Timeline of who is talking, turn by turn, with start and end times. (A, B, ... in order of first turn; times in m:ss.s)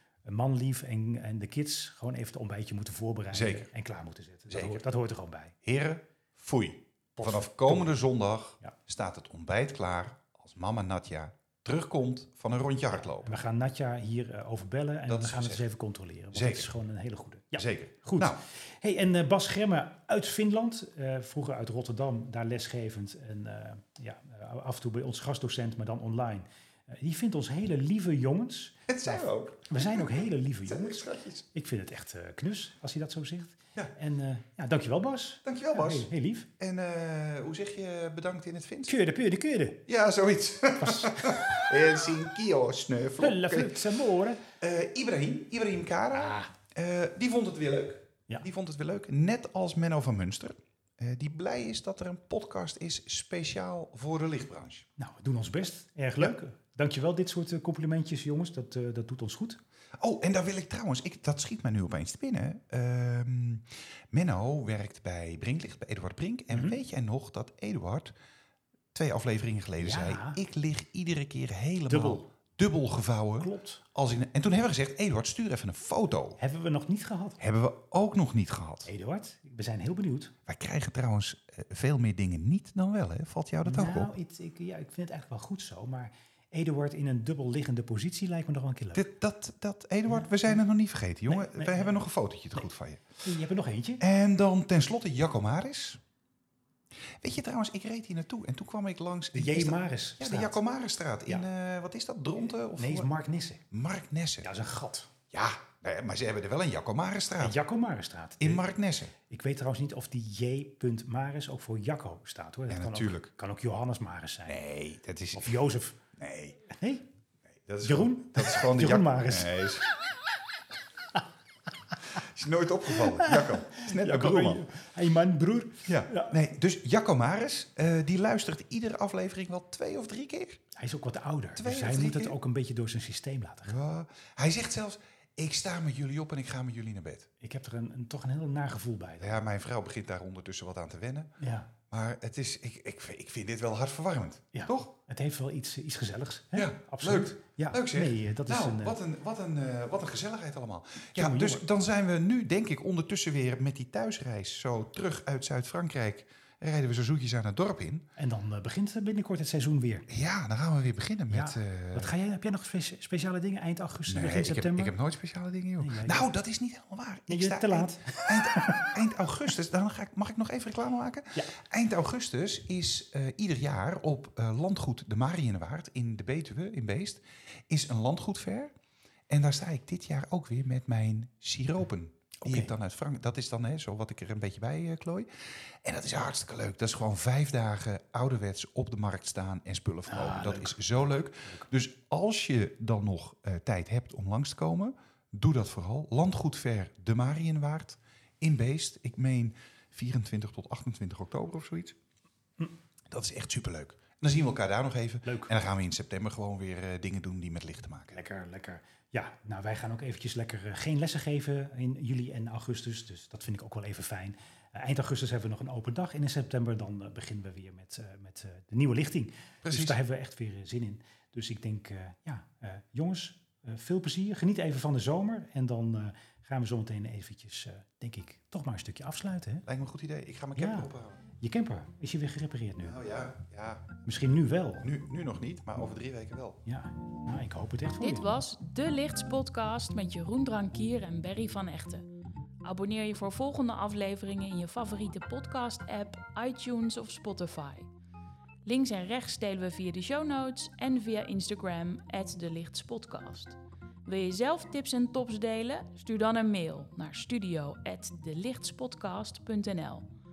0:00.2-0:05.6 A
0:03.3-0:03.7 B
0:04.5-0:04.8 B
0:05.6-0:13.4 B
0:07.2-0:07.8 A
0:13.2-0:36.5 A
0:15.1-0:15.6 B
0:16.3-0:16.7 B
0:17.6-0:18.4 B
0:28.9-0:31.4 B
0:35.4-0:38.9 B
0:38.9-0:39.8 A
0:39.8-0:43.9 B
0:40.8-0:41.5 A
0:43.2-0:44.4 A
0:44.6-0:54.9 B
0:46.1-0:46.5 A
0:55.0-0:59.6 A
1:00.0-1:08.1 B
1:06.5-1:06.8 A
1:08.9-1:16.4 B
1:09.8-1:10.4 A
1:11.9-1:12.2 A
1:13.4-1:13.8 A
1:16.4-1:17.4 A
1:17.4-1:18.9 B
1:18.8-1:20.3 A
1:20.5-1:24.1 B
1:23.6-1:29.0 A
1:28.9-1:33.2 B
1:30.1-1:30.6 A
1:31.3-1:32.0 A
1:33.2-1:34.0 A
1:34.0-1:36.0 B
1:37.2-1:43.1 B
1:39.3-1:40.6 A
1:42.7-1:43.6 A
1:43.7-1:44.5 B
1:44.4-1:45.1 A
1:45.3-1:47.6 B
1:47.4-1:48.7 A
1:48.4-1:49.1 B
1:49.3-1:54.6 A
1:52.7-1:53.3 B
1:54.5-1:55.6 B
1:55.3-1:56.0 A
1:56.2-1:56.6 B
1:56.6-1:57.0 A
1:57.6-1:59.9 B
1:57.8-1:59.7 A
2:02.1-2:04.6 B
2:02.9-2:06.4 A
2:05.8-2:10.6 B
2:10.7-2:13.8 A
2:11.6-2:12.4 B
2:13.6-2:17.3 B
2:17.4-2:19.4 A
2:19.2-2:21.3 B
2:21.4-2:21.7 A
2:21.9-2:24.9 B
2:24.5-2:29.0 A
2:26.5-2:38.0 B
2:31.1-2:31.6 A
2:38.2-2:40.1 A
2:40.1-2:42.1 B
2:41.3-2:44.9 A
2:44.1-2:58.7 B
2:45.8-2:46.3 A
2:47.3-2:49.0 A
2:59.3-3:22.0 B
3:02.4-3:02.7 A
3:10.1-3:10.8 A
3:23.1-3:28.2 B
3:25.2-3:25.6 A
3:28.1-3:49.6 A
3:39.6-3:40.0 B
3:49.6-3:51.2 B
3:50.6-3:50.9 A
3:51.4-3:53.0 A
3:52.8-3:53.9 B
3:54.0-3:54.9 A
3:54.8-3:56.6 B
3:56.6-3:58.2 A
3:58.0-4:02.1 C
4:02.6-4:07.9 C
4:08.6-4:20.1 C